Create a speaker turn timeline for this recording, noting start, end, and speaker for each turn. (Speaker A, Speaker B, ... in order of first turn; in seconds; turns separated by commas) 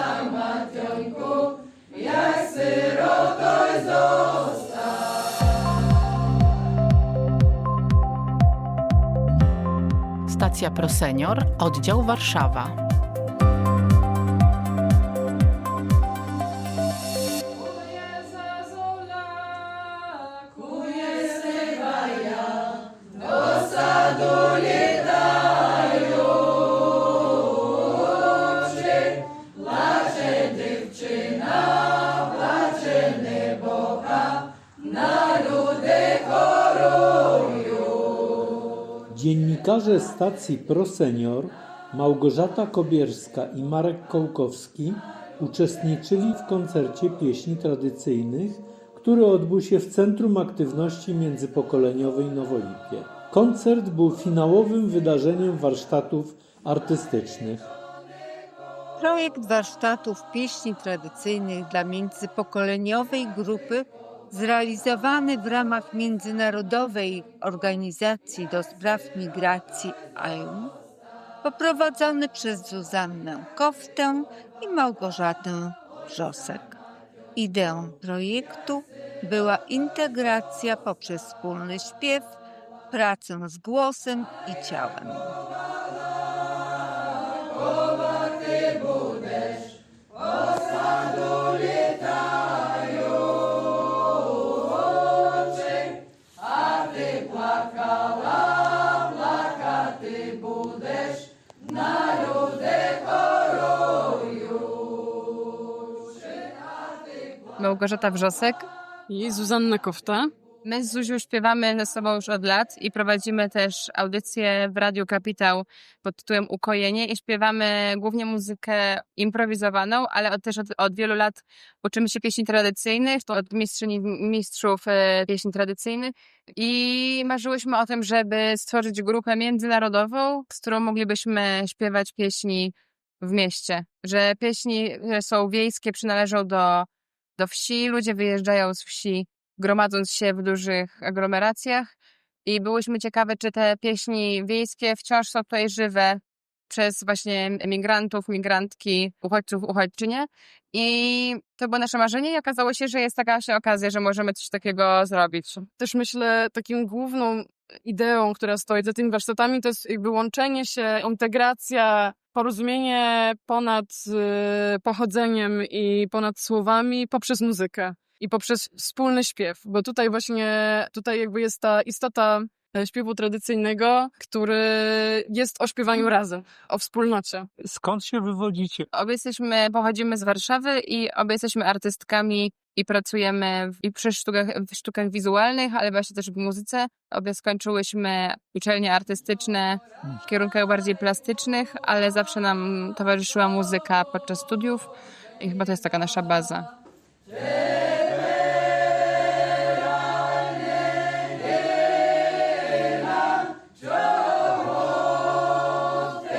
Speaker A: 10.3-12.8, Speaker B: 39.1-57.6, Speaker C: 59.0-70.6, Speaker C: 71.4-76.7, Speaker C: 77.4-82.2, Speaker C: 82.9-85.2, Speaker D: 107.6-108.7, Speaker E: 109.1-110.3, Speaker D: 110.6-136.9, Speaker D: 137.4-141.9, Speaker D: 142.4-155.7, Speaker E: 155.8-177.5, Speaker B: 177.6-178.9, Speaker D: 178.9-194.9, Speaker D: 195.4-196.7